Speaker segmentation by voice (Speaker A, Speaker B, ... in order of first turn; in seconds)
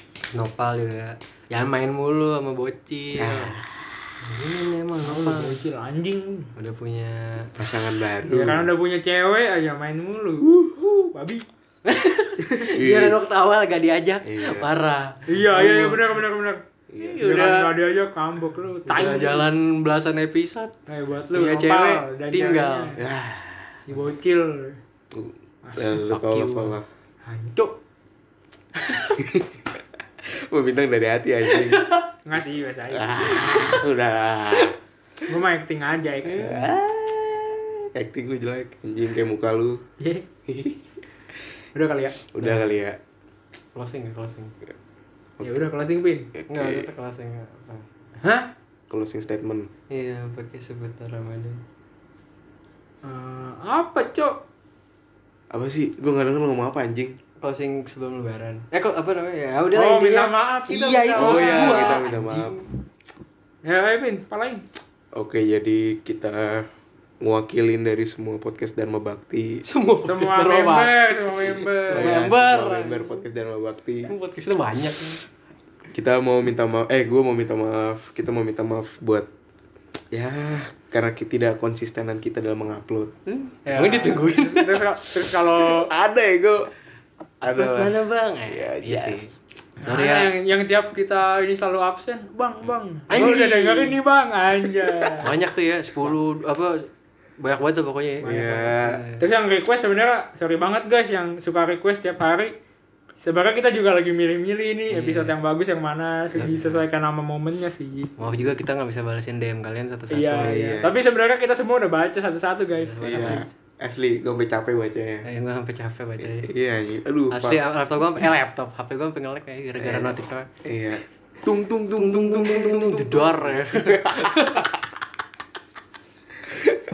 Speaker A: 0.3-3.6, 4.2-5.6, 6.6-7.5, 11.8-16.2, 17.0-17.7, 18.9-20.7, 21.3-23.0, 26.0-26.8, 31.5-32.1, 43.7-44.5, 46.5-47.9, 49.9-51.6, 57.4-62.7, 69.7-73.3, 74.1-75.2, 83.3-85.1, 87.4-89.3, 89.8-90.3, 93.1-94.0, 95.2-96.9, 97.4-99.2, 104.9-105.3, 106.3-106.8, 108.2-110.7, 112.7-113.5, 115.2-116.5, 117.3-120.5, 122.0-124.8
Speaker B: 3.1-4.1, 7.6-8.7, 10.4-10.8, 12.8-13.2, 14.2-14.7, 16.9-17.2, 18.9-19.3, 23.0-23.8, 25.1-26.9, 29.2-29.6, 30.2-31.9, 32.9-34.8, 36.2-39.9, 40.5-40.9, 42.3-43.0, 46.4-46.9, 48.9-49.7, 55.5-57.2, 61.2-62.5, 65.1-66.7, 67.2-69.6, 71.9-74.1, 75.9-79.3, 80.1-83.2, 85.7-86.7, 87.4-87.9, 88.5-89.4, 93.1-93.5, 94.8-95.2, 98.2-99.0, 110.4-111.0, 113.0-115.3, 116.2-117.6, 119.8-124.6
Speaker C: 5.0-6.5, 8.3-11.4, 15.3-16.6, 17.2-19.5, 20.9-23.0, 23.9-24.8, 27.3-27.8, 32.2-33.8, 35.3-36.8, 40.0-40.2, 41.8-42.3, 45.4-46.3, 48.2-48.5, 53.0-54.4, 59.7-62.0, 63.6-64.7, 70.1-72.3, 83.7-85.9, 89.8-95.3, 99.2-102.5, 103.2-108.1, 110.1-113.4